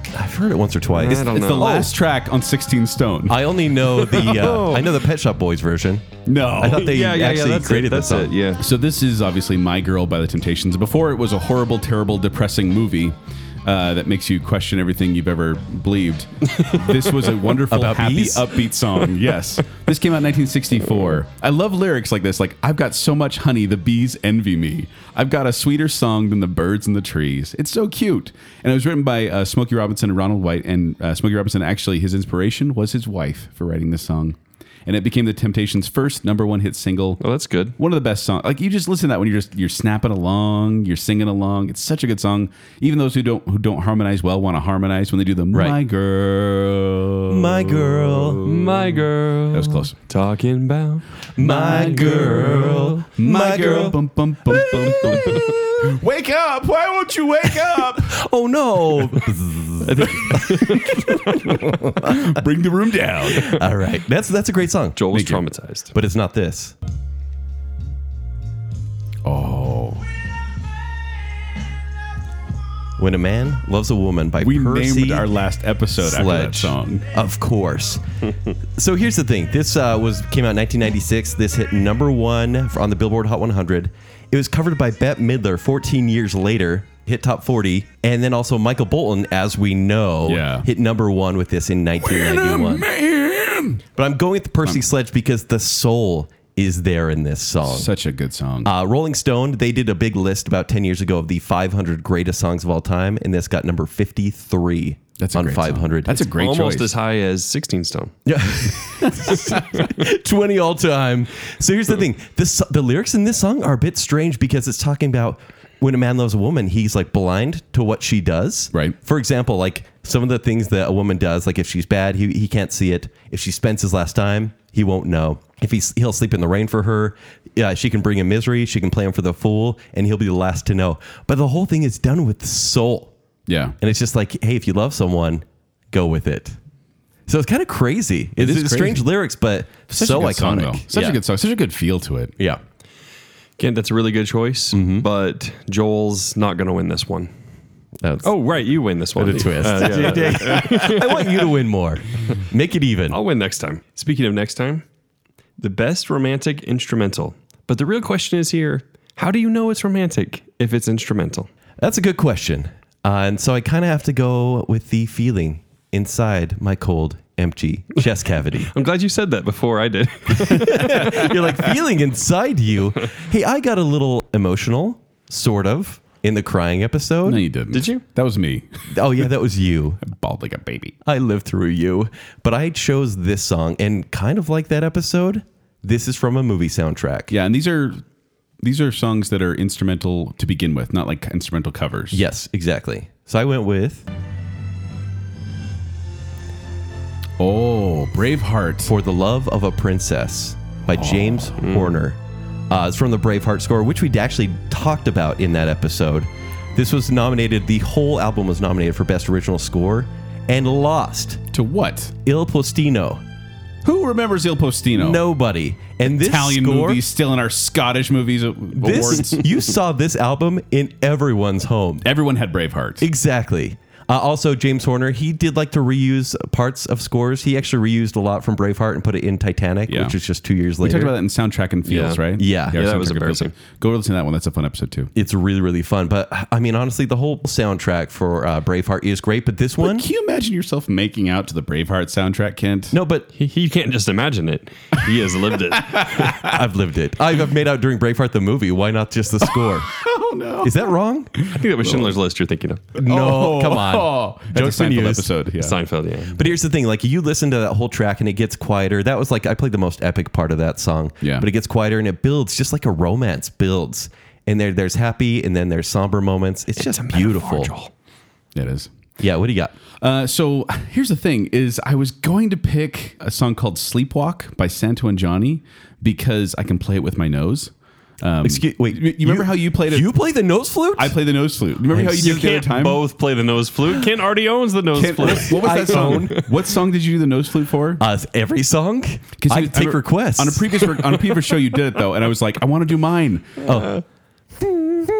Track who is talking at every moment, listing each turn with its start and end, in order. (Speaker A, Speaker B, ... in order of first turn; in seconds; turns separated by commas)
Speaker A: 0.1-1.3, Speaker B: 0.9-1.9, Speaker C: 1.1-3.5, Speaker A: 3.3-8.3, Speaker B: 4.0-5.0, Speaker C: 6.3-6.9, Speaker B: 6.7-8.6, Speaker C: 8.6-37.2, Speaker A: 17.7-18.5, Speaker B: 37.2-37.8, Speaker C: 37.8-48.4, Speaker A: 47.3-48.6, Speaker B: 48.4-53.0, Speaker C: 49.5-50.0, Speaker A: 51.4-55.6, Speaker C: 51.5-58.2, Speaker A: 58.0-60.8, Speaker B: 59.8-61.5, Speaker C: 60.4-63.6, Speaker A: 61.4-62.4, Speaker A: 63.3-65.0, Speaker B: 65.0-66.0, Speaker C: 65.1-65.4, Speaker A: 65.9-66.7, Speaker C: 69.2-70.0, Speaker A: 73.0-75.3, Speaker C: 74.4-77.0, Speaker A: 76.0-78.1, Speaker A: 78.8-92.9, Speaker C: 90.3-90.7, Speaker C: 92.0-93.8, Speaker A: 94.0-97.9, Speaker C: 97.7-98.7, Speaker A: 98.6-106.3, Speaker C: 105.2-107.0, Speaker B: 106.3-108.2, Speaker A: 108.3-133.1, Speaker C: 109.0-109.6, Speaker C: 133.5-133.8, Speaker A: 133.8-136.6, Speaker A: 137.3-141.2, Speaker C: 138.4-139.1, Speaker C: 139.9-142.3, Speaker B: 143.6-147.3, Speaker A: 144.7-145.1, Speaker A: 148.0-148.3, Speaker B: 148.2-151.6, Speaker A: 149.2-153.2, Speaker C: 150.3-150.9, Speaker B: 153.1-154.8, Speaker B: 155.6-161.5, Speaker A: 161.8-168.7, Speaker B: 168.7-171.5, Speaker A: 170.5-177.4, Speaker C: 170.8-171.1, Speaker C: 177.3-178.9, Speaker B: 177.7-178.0, Speaker A: 178.9-180.0, Speaker C: 180.0-180.9, Speaker A: 181.1-187.3, Speaker C: 187.3-188.0, Speaker C: 188.6-192.2, Speaker A: 192.1-194.1, Speaker C: 197.4-198.9, Speaker A: 198.9-202.2, Speaker C: 200.9-201.7, Speaker B: 201.6-201.9, Speaker A: 202.7-211.4, Speaker C: 211.5-212.2, Speaker A: 212.2-213.2, Speaker C: 213.8-215.2, Speaker A: 214.9-217.0, Speaker C: 216.1-219.5, Speaker A: 218.8-222.1, Speaker C: 222.0-223.1, Speaker A: 223.0-231.1, Speaker C: 229.9-230.2, Speaker C: 230.8-235.1, Speaker B: 231.9-233.6, Speaker A: 232.4-232.8, Speaker A: 235.2-240.1, Speaker C: 239.8-243.0, Speaker A: 242.9-243.3, Speaker B: 243.3-246.4, Speaker C: 245.8-246.6, Speaker A: 246.4-250.0, Speaker C: 249.4-250.8, Speaker A: 250.6-251.5, Speaker B: 251.5-252.9, Speaker A: 252.9-255.3, Speaker C: 253.0-255.8, Speaker B: 255.6-256.5, Speaker A: 256.3-267.7, Speaker C: 261.2-261.5, Speaker B: 266.8-267.9, Speaker C: 268.6-268.9, Speaker A: 269.2-269.8, Speaker C: 270.0-280.1, Speaker A: 278.4-281.2, Speaker C: 281.0-283.0, Speaker A: 281.9-282.4, Speaker B: 282.2-286.5, Speaker C: 284.9-288.0, Speaker A: 285.2-286.5, Speaker A: 288.0-291.0, Speaker C: 289.4-293.6, Speaker A: 293.6-294.0